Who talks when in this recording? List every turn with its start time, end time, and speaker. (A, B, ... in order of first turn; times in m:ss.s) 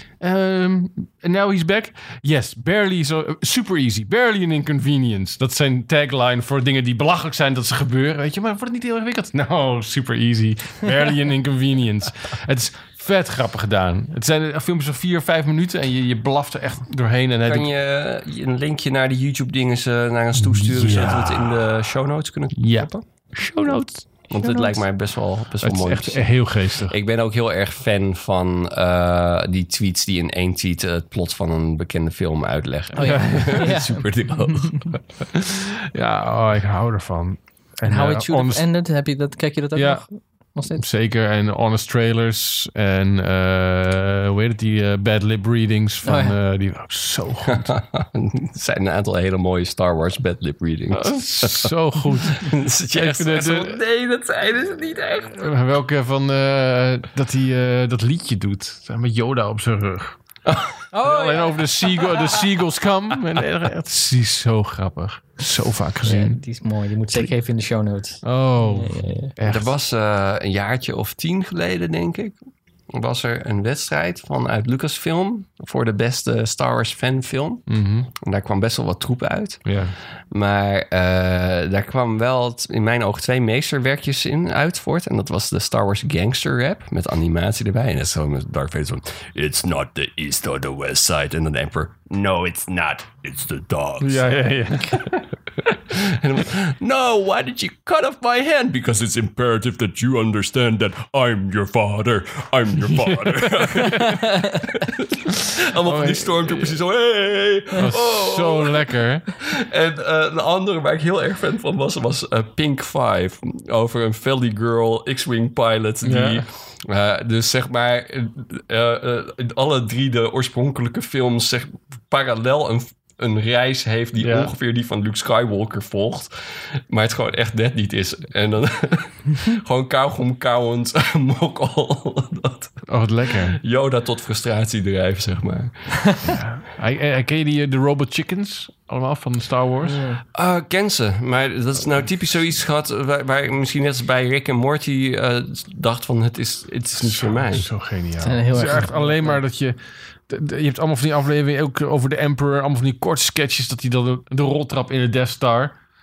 0:00.2-0:17.7 A
0:17.4-0:23.0 B
0:20.3-0:21.9 A
0:22.5-0:24.8 A
0:24.3-0:35.0 B
0:25.6-0:26.9 A
0:33.0-0:34.9 C
0:33.0-0:33.5 A
0:35.3-0:38.6 A
0:37.8-0:40.8 C
0:39.7-0:40.0 A
0:40.7-0:47.7 A
0:46.0-0:46.3 C
0:47.6-0:55.5 B
0:50.9-0:53.8 A
0:55.4-1:06.4 A
1:00.9-1:02.4 C
1:06.0-1:09.3 C
1:08.2-1:09.7 A
1:09.4-1:12.4 B
1:12.9-1:17.6 B
1:17.7-1:18.1 A
1:18.2-1:19.7 B
1:19.6-1:20.0 A
1:20.3-1:34.2 B
1:34.0-1:35.3 A
1:35.9-2:06.3 B
1:42.9-1:44.2 A
1:44.1-1:44.4 C
1:45.5-1:46.8 A
1:47.8-1:49.3 A
1:56.0-1:56.4 A
2:04.2-2:04.5 A
2:06.9-2:12.8 B
2:12.9-2:13.6 A
2:13.5-2:16.2 B
2:16.3-2:20.0 A
2:19.8-2:20.2 C
2:20.3-2:27.7 B
2:27.0-2:29.8 A
2:28.2-2:29.4 C
2:30.3-2:35.7 A